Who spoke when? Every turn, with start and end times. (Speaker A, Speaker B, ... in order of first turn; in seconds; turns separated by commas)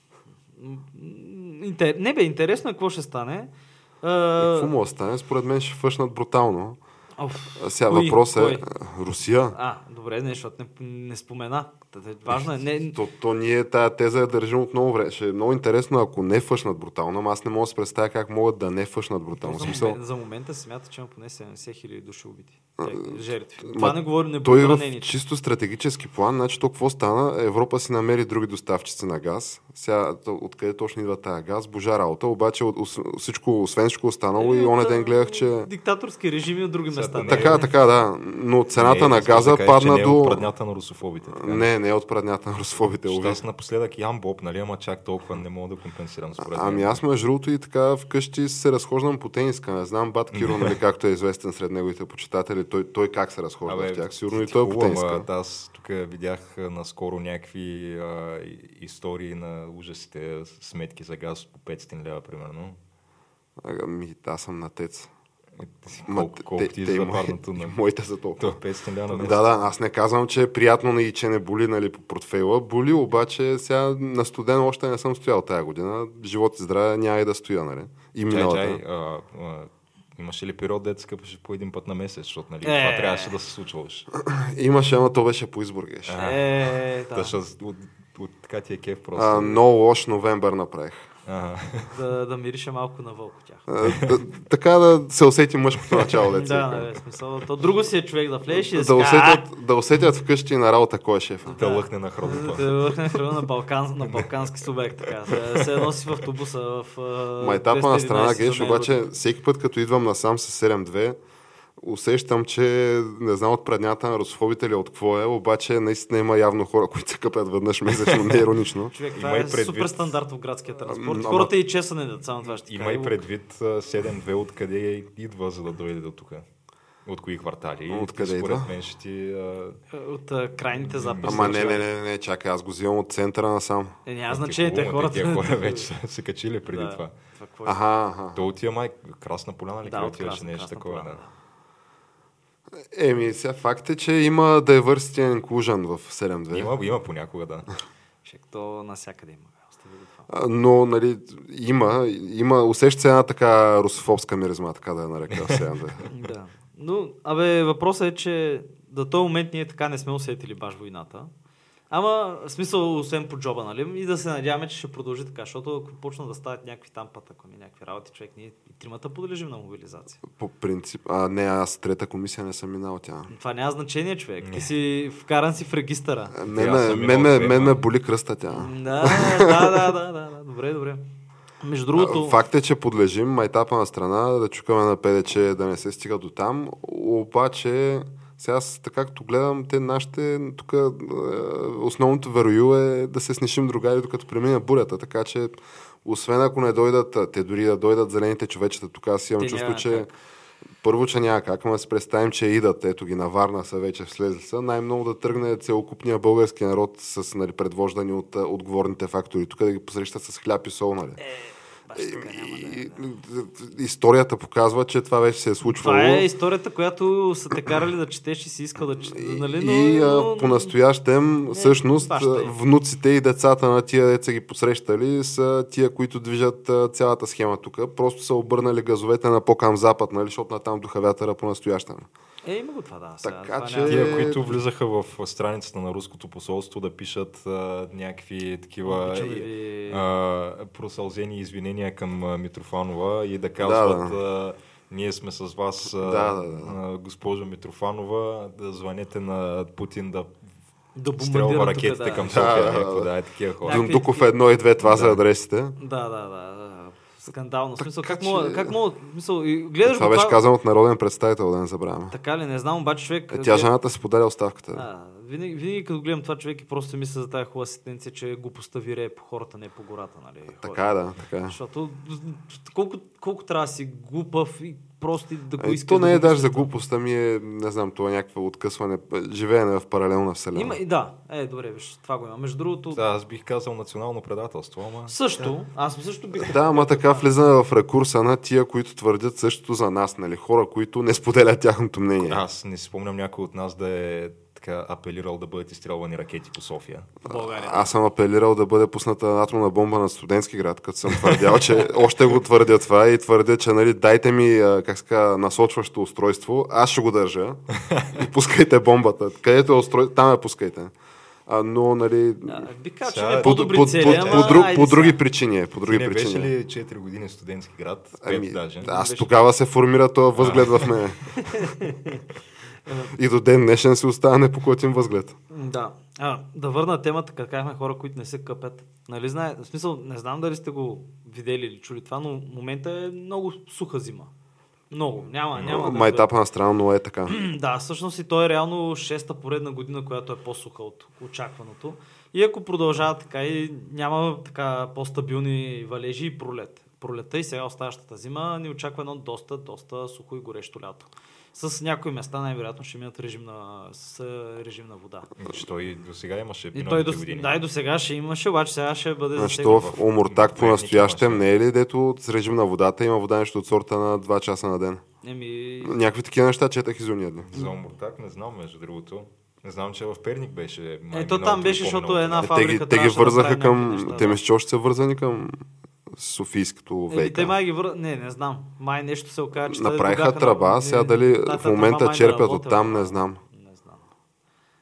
Speaker A: 0.6-3.5, Speaker A: 4.0-4.7, Speaker B: 4.4-6.8, Speaker A: 7.2-8.7, Speaker B: 7.6-9.6, Speaker A: 9.5-13.0, Speaker B: 12.9-20.0, Speaker A: 19.4-25.1, Speaker B: 22.8-35.7, Speaker A: 34.4-37.7, Speaker C: 36.9-37.7, Speaker B: 37.3-40.5, Speaker C: 38.7-41.7, Speaker B: 41.4-43.4, Speaker C: 43.0-47.0, Speaker B: 46.4-55.3, Speaker C: 50.3-50.8, Speaker C: 53.6-62.8, Speaker B: 63.6-65.1, Speaker C: 65.6-67.8, Speaker B: 66.1-68.5, Speaker C: 68.4-69.6, Speaker B: 69.1-78.8, Speaker C: 78.3-84.1, Speaker A: 82.6-83.3, Speaker B: 84.2-86.2, Speaker C: 86.1-89.6, Speaker A: 86.1-87.3, Speaker B: 89.2-91.0, Speaker C: 91.2-91.9, Speaker A: 91.9-93.7, Speaker B: 93.7-96.9, Speaker C: 93.8-94.2, Speaker A: 96.3-99.5, Speaker B: 98.5-101.6, Speaker A: 101.5-109.1, Speaker C: 101.5-103.0, Speaker C: 105.3-105.9, Speaker B: 107.4-111.2, Speaker B: 111.8-118.9, Speaker C: 117.9-118.5, Speaker A: 118.9-123.2, Speaker C: 119.1-120.1, Speaker B: 120.8-121.5, Speaker C: 122.5-126.4, Speaker C: 127.0-129.8, Speaker B: 127.9-128.7, Speaker A: 129.9-131.8, Speaker C: 130.7-131.8, Speaker B: 131.2-133.9, Speaker A: 134.1-135.9, Speaker C: 134.3-137.1, Speaker A: 136.7-137.8, Speaker B: 137.7-138.4, Speaker C: 138.3-141.2, Speaker A: 139.8-141.3, Speaker B: 142.8-146.7, Speaker C: 146.5-147.7, Speaker A: 148.2-150.3, Speaker B: 150.3-156.0, Speaker A: 156.1-161.3, Speaker A: 161.9-170.2, Speaker B: 170.3-173.3, Speaker A: 173.3-176.3, Speaker C: 174.4-174.7, Speaker B: 176.3-179.9, Speaker C: 176.5-177.8, Speaker A: 178.5-181.0, Speaker A: 181.6-182.4, Speaker B: 181.9-200.1, Speaker A: 199.4-200.1, Speaker B: 200.8-211.2, Speaker A: 211.2-213.1, Speaker B: 211.9-216.2, Speaker A: 215.6-220.7, Speaker B: 219.0-232.1, Speaker A: 221.5-222.5, Speaker A: 232.4-234.4, Speaker B: 233.2-234.5, Speaker C: 233.9-250.3, Speaker A: 238.8-240.1, Speaker B: 243.6-244.1, Speaker B: 246.0-246.7, Speaker A: 250.9-252.3, Speaker C: 251.2-254.0, Speaker B: 252.2-253.1, Speaker A: 253.6-254.3, Speaker B: 253.6-255.8, Speaker C: 254.8-255.2, Speaker A: 255.8-260.4, Speaker B: 257.8-258.8, Speaker B: 259.8-262.1, Speaker A: 262.1-263.7, Speaker B: 263.3-264.8, Speaker A: 264.7-270.9, Speaker B: 270.6-271.5, Speaker A: 271.5-276.7, Speaker B: 275.6-280.8, Speaker A: 280.5-283.0, Speaker C: 282.9-285.5, Speaker A: 285.1-287.3, Speaker B: 286.4-292.4, Speaker C: 292.2-297.1, Speaker A: 297.2-297.9, Speaker B: 297.3-307.6, Speaker C: 301.1-301.9, Speaker B: 308.1-310.9, Speaker B: 311.5-312.7, Speaker A: 312.5-315.2, Speaker C: 313.0-314.7, Speaker B: 313.4-316.5, Speaker C: 315.8-319.1, Speaker B: 318.2-321.2, Speaker A: 318.8-319.3, Speaker C: 320.4-321.0, Speaker A: 321.4-322.2, Speaker A: 322.9-323.1, Speaker B: 323.1-325.3, Speaker A: 325.5-334.3, Speaker A: 334.9-336.4, Speaker B: 335.6-337.3, Speaker A: 337.3-355.3, Speaker C: 355.4-357.6, Speaker A: 356.7-359.9, Speaker B: 359.4-365.0, Speaker C: 359.6-361.5, Speaker A: 365.2-366.0, Speaker B: 365.8-367.5, Speaker C: 367.5-372.5, Speaker A: 371.1-374.4, Speaker B: 372.4-377.5, Speaker A: 377.1-384.0, Speaker B: 379.7-383.4